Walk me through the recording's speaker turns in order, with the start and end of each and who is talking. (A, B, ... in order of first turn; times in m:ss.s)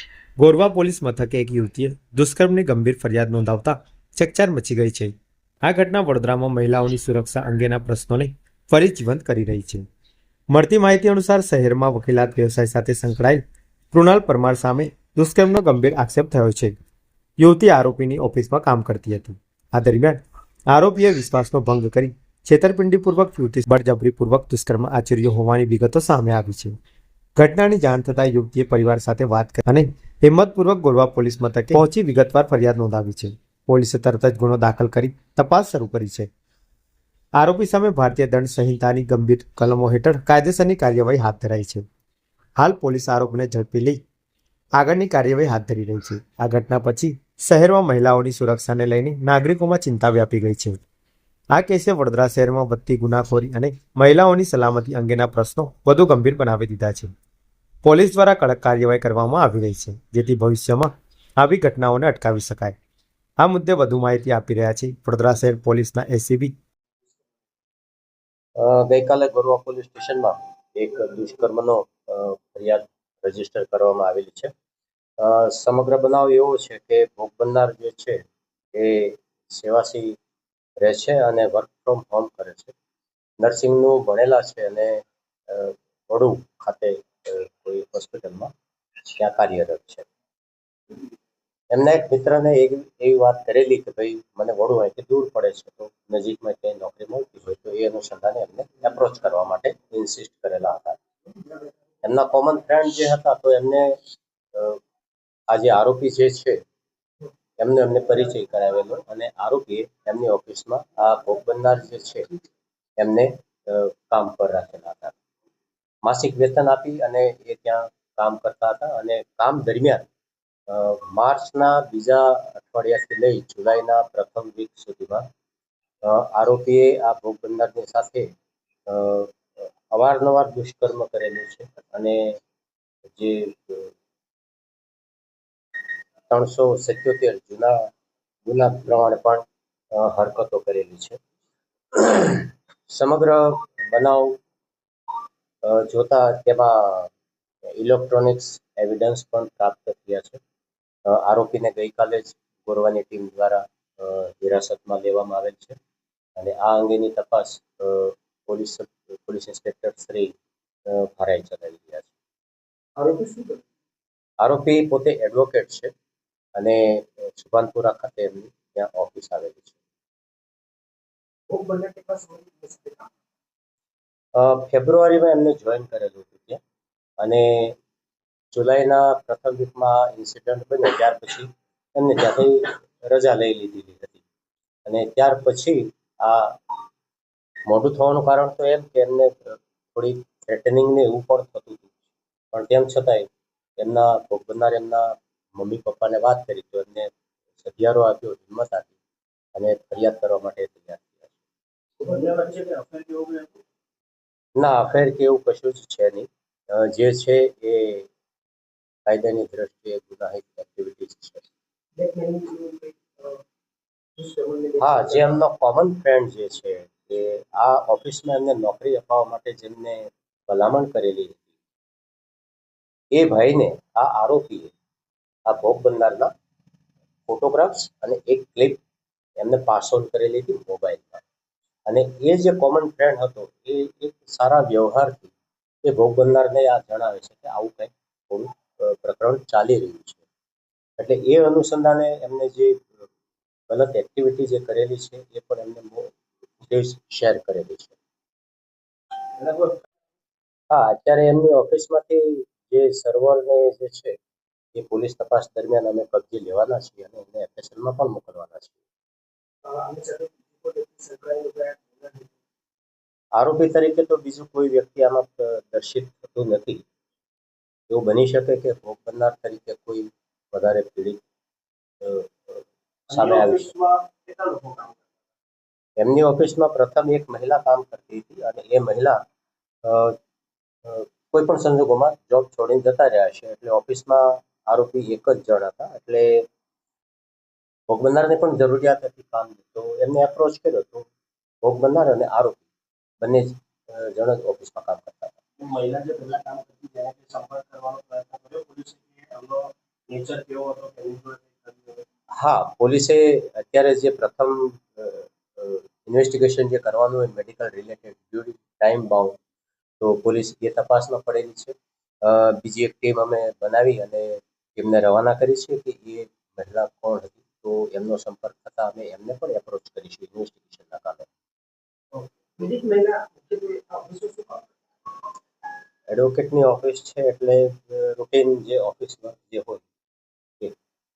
0:00.4-0:09.8 A
0:10.5-0:16.8 A
0:17.4-0:26.8 A
0:27.4-0:36.3 A
0:37.4-0:41.8 A
0:42.6-0:44.0 A
0:44.8-0:50.8 A
0:51.5-0:57.1 A
0:57.8-1:02.8 A
1:03.4-1:06.5 A
1:08.6-1:14.5 B
1:15.2-1:18.2 B
1:18.7-1:20.2 B
1:20.8-1:22.7 B
1:23.4-1:28.5 B
1:29.2-1:30.1 B
1:31.7-1:41.0 B
1:42.0-1:44.0 B
1:44.5-1:44.8 B
1:45.5-1:46.6 B
1:47.6-1:52.3 B
1:53.0-1:55.1 B
1:56.0-2:00.1 B
2:00.7-2:05.2 B
2:06.0-2:08.3 B
2:08.9-2:12.4 B
2:13.2-2:13.9 B
2:16.3-2:17.8 B
2:18.5-2:19.4 B
2:19.9-2:21.2 B
2:21.9-2:24.4 B
2:25.6-2:27.1 B
2:27.8-2:30.4 B
2:31.1-2:35.8 B
2:36.4-2:40.3 B
2:40.9-2:42.1 B
2:43.0-2:43.6 C
2:44.4-2:45.9 B
2:46.6-2:49.8 B
2:51.5-2:53.1 C
2:54.4-2:56.6 B
2:57.2-2:57.8 B
2:58.5-3:04.2 B
3:04.9-3:06.6 B
3:07.7-3:11.9 B
3:12.5-3:13.3 B
3:13.8-3:17.1 B
3:17.6-3:18.9 B
3:19.6-3:21.3 B
3:22.0-3:23.6 C
3:24.6-3:28.1 B
3:29.1-3:31.4 B
3:32.0-3:33.4 C
3:34.2-3:35.4 C
3:34.8-3:41.4 B
3:43.2-3:44.7 B
3:45.5-3:46.3 B
3:47.3-3:48.8 B
3:49.4-3:51.2 B
3:51.9-3:55.3 B
3:55.8-4:00.2 B
4:01.0-4:02.9 B
4:03.7-4:08.0 B
4:09.4-4:09.8 C
4:10.7-4:14.1 B
4:14.8-4:18.8 B
4:19.6-4:22.3 C
4:23.4-4:26.8 B
4:27.9-4:31.2 B
4:32.0-4:33.7 B
4:33.1-4:35.0 C
4:36.0-4:39.2 B
4:39.8-4:40.2 B
4:40.8-4:46.4 B
4:47.9-4:51.1 B
4:51.6-4:52.6 B
4:53.2-4:55.4 B
4:55.6-5:02.0 C
5:02.4-5:09.3 B
5:10.0-5:21.3 B
5:22.1-5:24.7 C
5:26.1-5:29.8 B